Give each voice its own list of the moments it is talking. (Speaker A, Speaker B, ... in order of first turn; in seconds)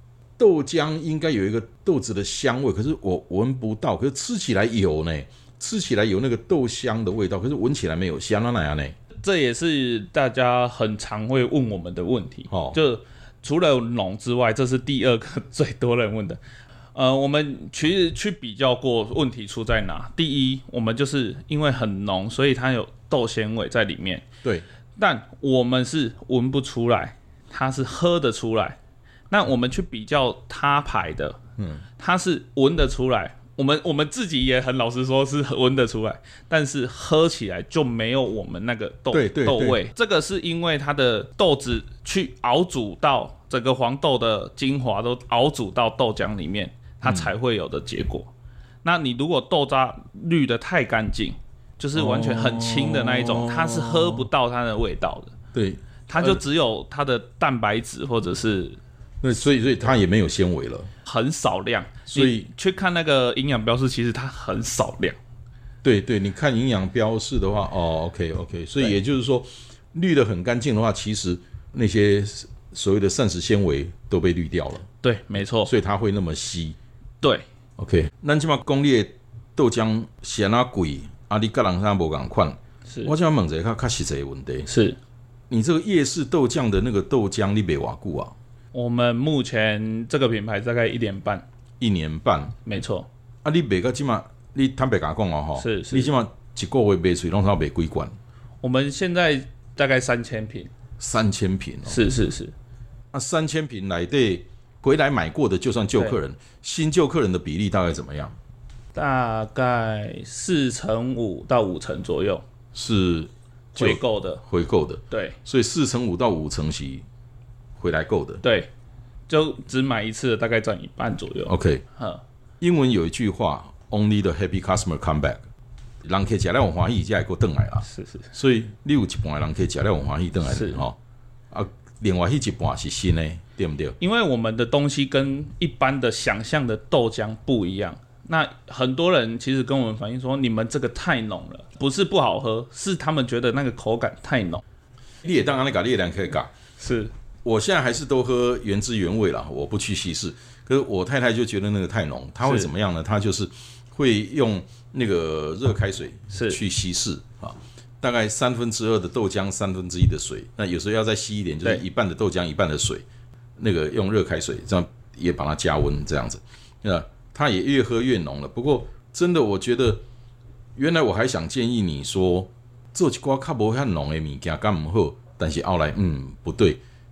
Speaker A: 0.4-8.9, 12.5-12.8, 31.6-31.9, 39.1-39.8, 47.0-47.3, 51.9-54.3, 55.5-56.4, 59.2-60.9, 62.1-62.5, 65.8-74.9, 75.6-76.8, 77.8-84.7, 85.5-88.3, 91.8-92.5, 93.4-98.1, 101.0-102.1, 103.1-108.3, 112.7-117.0, 117.8-118.4, 121.5-121.8, 122.6-125.4, 126.0-131.0, 131.5-134.0, 145.2-146.5, 147.4-163.1, 163.6-170.0, 170.8-176.8
Speaker B: 9.2-16.4, 16.9-24.2, 25.0-28.8, 29.3-31.4, 32.0-48.3, 48.8-55.3, 56.1-58.8, 61.0-65.2, 75.0-75.7, 82.9-83.1, 84.7-85.0, 88.7-91.4, 92.6-93.1, 95.6-96.1, 98.6-100.7, 101.8-102.5, 108.9-112.4, 113.7-114.4, 115.1-115.4, 118.4-118.7, 119.3-122.2, 127.9-128.2, 130.4-130.8, 134.0-144.6, 146.8-147.1, 152.4-152.7, 156.3-156.6